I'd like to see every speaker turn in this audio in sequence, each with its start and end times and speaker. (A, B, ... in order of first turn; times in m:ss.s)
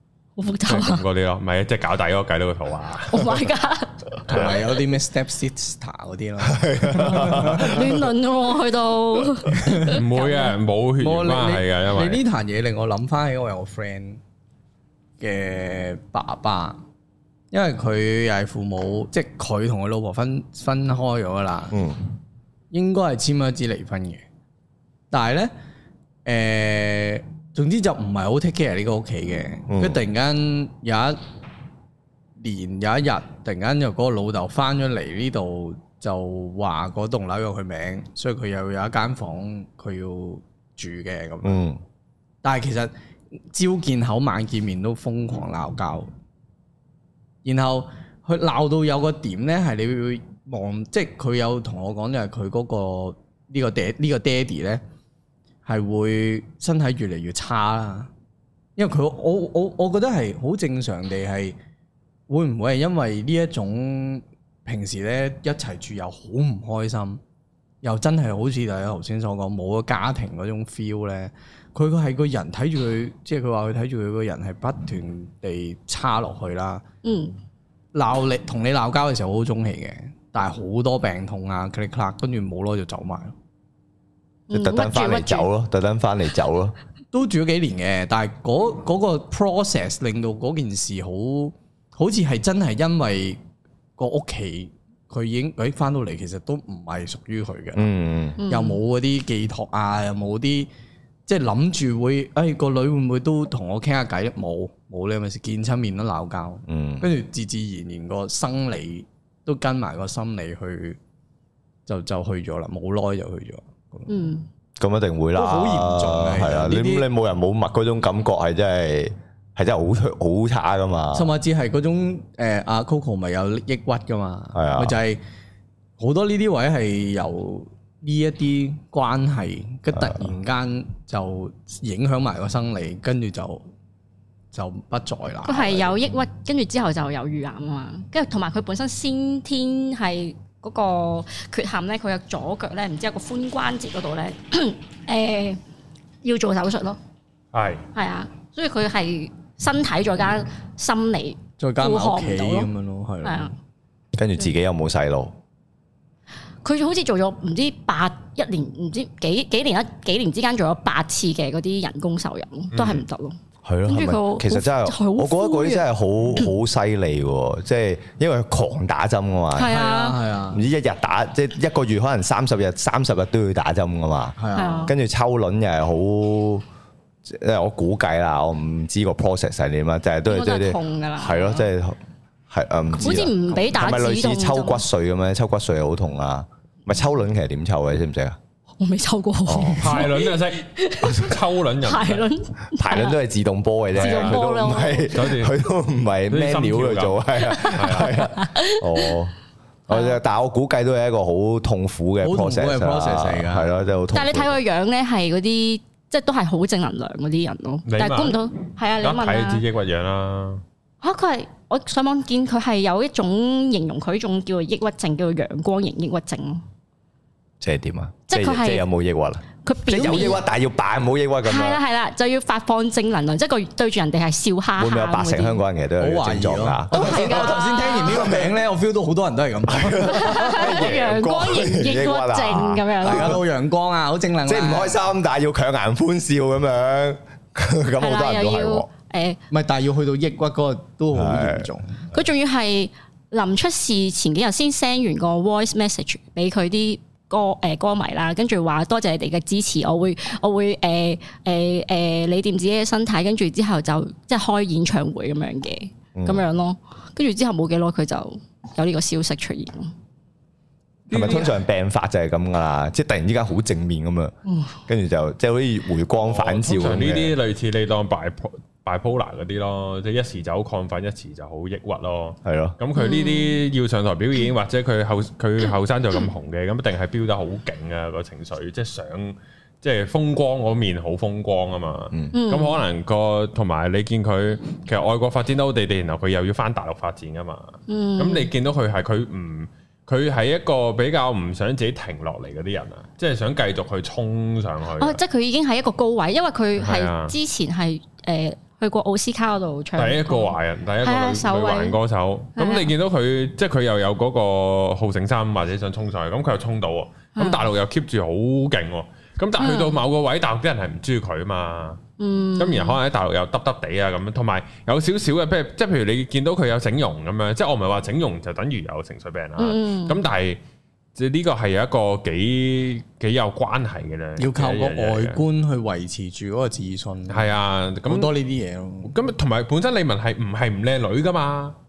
0:00.4-0:01.0 A
0:00.7-0:03.3 B
0:03.1-0:04.1 A
0:04.2-0:07.9 C
0:06.5-0:08.1 D
0:07.0-0:10.6 A
0:09.6-0:09.9 C
0:09.8-0:12.2 B
0:11.0-0:14.2 C
0:15.2-0:16.8 C
0:17.5-0:21.8 C
0:21.7-0:22.0 D
0:22.7-0:24.2 C
0:25.1-0:25.5 C
0:26.2-0:31.2 C
0:29.7-0:30.0 D
0:32.4-0:41.6 C
0:41.4-0:41.8 D
0:42.4-0:42.9 C
0:43.5-0:46.1 C
0:47.4-0:54.8 C
0:55.7-0:58.1 C
0:58.8-1:01.6 C
1:02.3-1:07.2 C
1:07.8-1:16.8 C
1:17.0-1:17.4 A
1:17.9-1:23.3 C
1:24.5-1:25.5 A
1:24.5-1:26.8 D
1:27.1-1:33.4 C
1:34.0-1:37.9 C
1:37.8-1:38.4 D
1:38.4-1:38.8 A
1:38.5-1:40.7 C
1:41.3-1:51.0 C
1:46.7-1:47.1 D
1:51.9-1:54.1 C
1:54.1-1:54.5 A
1:54.8-2:01.3 D
1:55.4-1:57.1 C
2:01.1-2:05.2 C
2:04.5-2:05.0 D
2:06.0-2:13.6 C
2:10.0-2:10.3 D
2:14.5-2:16.0 C
2:15.4-2:25.6 A
2:26.2-2:27.0 A
2:27.5-2:27.8 B
2:27.9-2:32.7 A
2:31.6-2:33.6 C
2:33.2-2:33.5 A
2:34.2-2:35.3 D
2:36.6-2:45.9 A
2:42.7-2:43.0 B
2:43.6-2:49.8 D
2:49.6-2:50.2 A
2:49.6-2:50.6 C
2:50.5-2:56.6 D
2:54.4-2:54.9 C
2:54.5-2:55.0 A
2:57.2-3:02.0 D
3:00.3-3:01.7 A
3:02.5-3:08.4 D
3:03.0-3:03.7 C
3:03.0-3:04.8 A
3:08.8-3:13.2 A
3:09.5-3:10.0 D
3:09.8-3:12.3 B
3:12.8-3:19.3 D
3:14.0-3:15.5 B
3:14.0-3:15.2 A
3:16.3-3:18.2 B
3:17.4-3:19.2 A
3:19.9-3:24.6 D
3:19.9-3:20.2 A
3:22.2-3:23.7 C
3:24.1-3:29.6 A
3:27.9-3:28.4 B
3:29.0-3:30.6 B
3:31.0-3:36.6 A
3:37.6-3:41.8 D
3:38.3-3:38.8 A
3:39.6-3:40.4 A
3:39.9-3:40.4 C
3:41.4-3:45.6 A
3:44.8-3:48.5 D
3:46.0-3:50.5 C
3:46.9-3:48.4 A
3:49.7-3:53.4 D
3:50.0-3:53.4 A
3:50.6-3:51.0 B
3:53.0-3:55.1 C
3:54.5-3:58.9 D
3:58.0-3:59.4 A
3:59.5-4:02.0 C
4:01.1-4:01.7 D
4:02.1-4:19.9 A
4:16.2-4:16.4 D
4:21.1-4:21.6 B
4:21.1-4:24.3 D
4:24.5-4:24.8 A
4:24.9-4:27.3 D
4:26.2-4:55.2 B
4:32.4-4:32.8 D
4:33.0-4:33.6 A
4:42.3-4:42.8 A
4:47.9-4:48.5 A
4:55.0-5:02.0 A
4:56.8-4:57.4 B
5:00.0-5:12.0 B
5:02.6-5:02.9 A
5:07.4-5:07.7 A
5:09.6-5:10.0 A
5:12.2-5:13.0 A
5:12.6-5:20.6 B
5:19.6-5:20.2 A
5:21.2-5:25.4 B
5:24.4-5:27.5 C
5:27.3-5:28.3 B
5:28.1-5:29.1 C
5:29.0-5:31.8 B